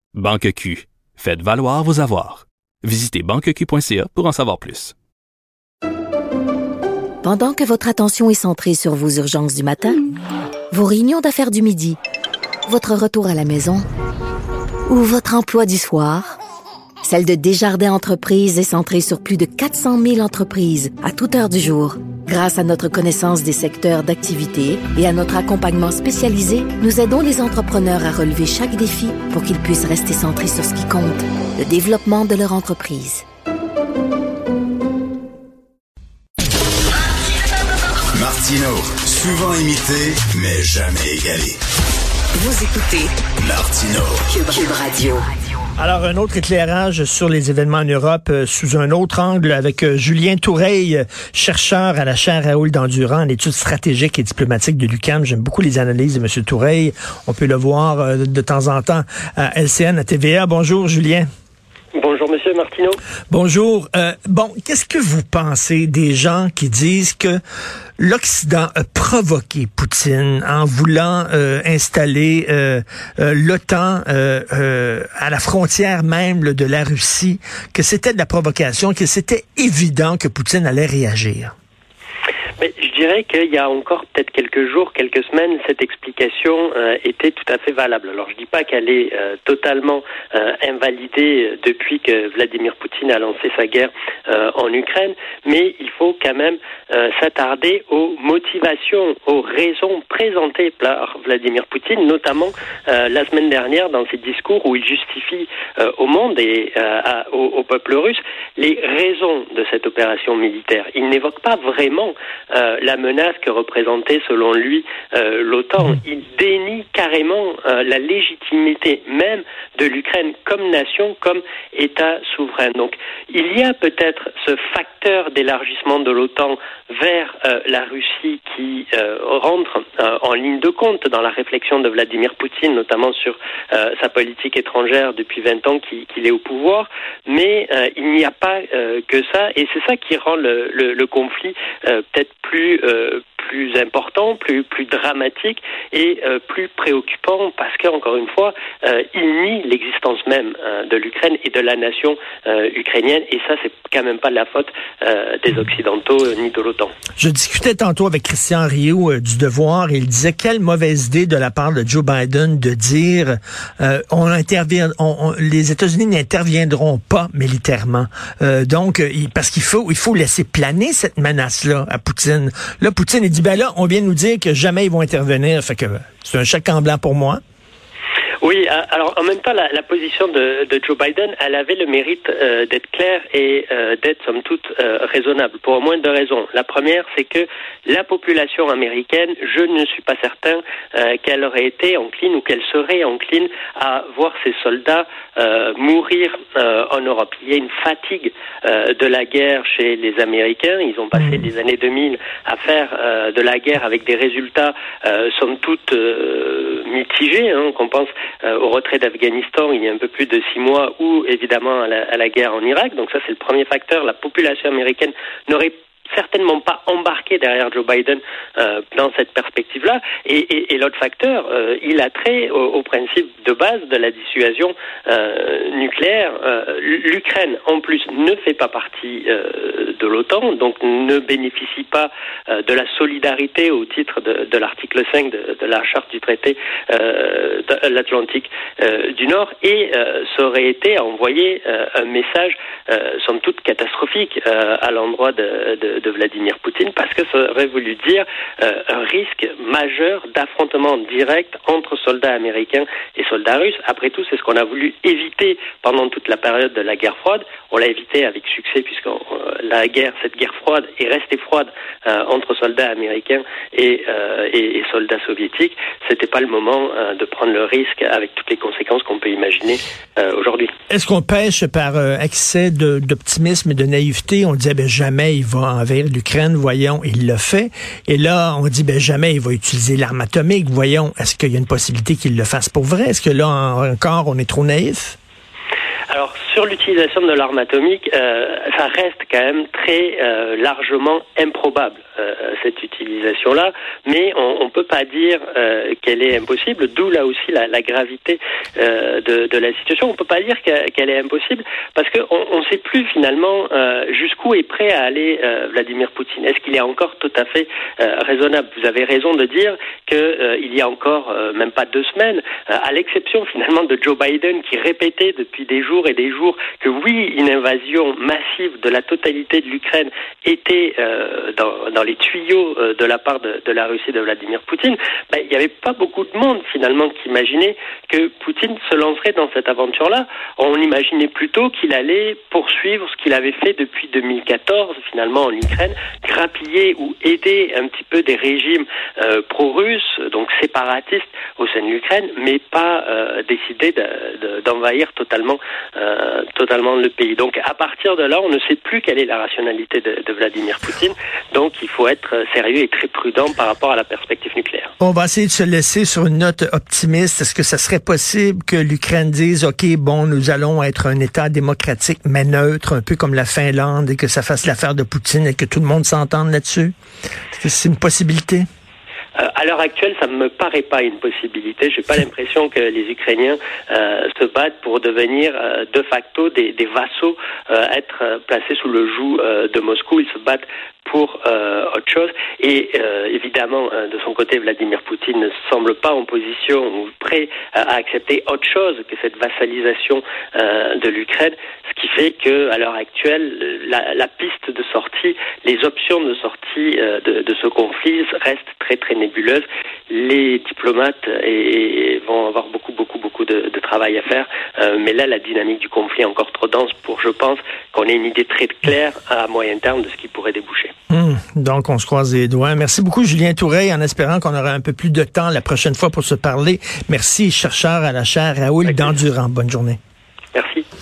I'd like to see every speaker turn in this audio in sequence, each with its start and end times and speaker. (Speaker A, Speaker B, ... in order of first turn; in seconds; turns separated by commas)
Speaker A: 0.1-4.9, Speaker B: 7.2-10.0, Speaker B: 10.7-12.0, Speaker B: 12.7-13.9, Speaker B: 14.9-16.4, Speaker B: 17.0-33.2, Speaker C: 38.1-41.6, Speaker B: 42.4-43.1, Speaker C: 43.4-44.3, Speaker B: 44.4-45.2, Speaker D: 45.8-61.3, Speaker E: 61.9-63.0, Speaker D: 63.3-67.4, Speaker D: 68.0-81.5, Speaker E: 82.6-156.9, Speaker D: 157.2-177.4, Speaker E: 178.4-270.7, Speaker D: 270.9-285.2, Speaker E: 286.1-354.9, Speaker D: 355.0-366.9, Speaker D: 367.5-368.7, Speaker E: 369.4-410.9, Speaker D: 411.1-420.0, Speaker E: 418.9-419.1, Speaker E: 420.5-420.9